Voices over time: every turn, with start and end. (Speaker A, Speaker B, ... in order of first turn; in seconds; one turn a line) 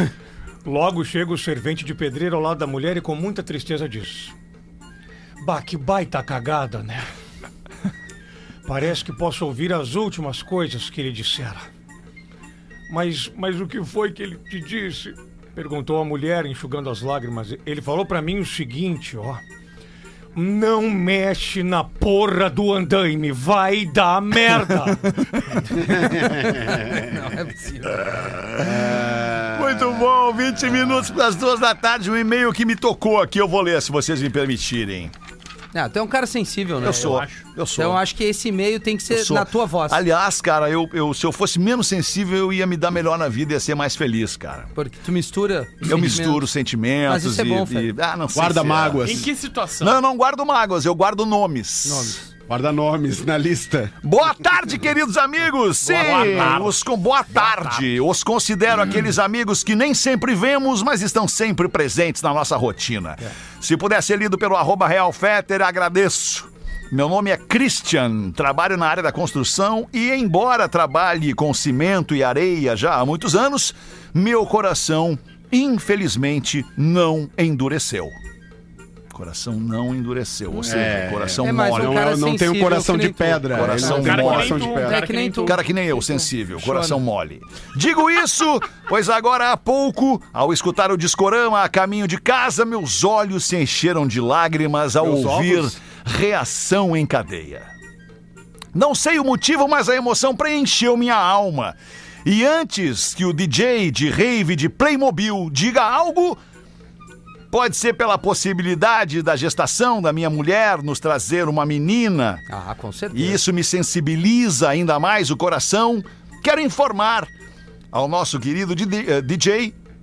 Speaker A: 0.6-4.3
Speaker A: 5.4-7.0
Speaker A: 8.6-11.6
Speaker A: 12.9-19.4
Speaker A: 20.3-25.0
Speaker B: 24.5-25.7
Speaker C: 26.3-27.0
Speaker D: 26.9-28.1
Speaker B: 27.9-35.1
Speaker C: 28.6-29.9
Speaker D: 35.7-37.2
Speaker B: 36.8-38.0
Speaker E: 36.8-37.4
Speaker D: 37.8-40.0
Speaker B: 39.1-44.7
Speaker D: 44.7-46.5
Speaker B: 45.8-49.3
Speaker D: 47.0-47.9
Speaker C: 48.3-49.2
Speaker E: 49.0-50.0
Speaker B: 49.8-52.2
Speaker D: 51.8-52.2
Speaker C: 52.5-53.9
Speaker B: 54.0-78.1
Speaker E: 55.9-57.9
Speaker C: 55.9-56.5
Speaker B: 79.1-82.1
Speaker C: 80.5-85.0
Speaker D: 81.4-87.0
Speaker B: 83.5-84.8
Speaker E: 83.8-85.6
Speaker B: 85.4-97.7
Speaker C: 95.0-95.8
Speaker B: 98.7-106.4
Speaker B: 107.5-112.4
Speaker D: 112.5-113.4
Speaker B: 113.1-117.3
Speaker B: 117.9-119.8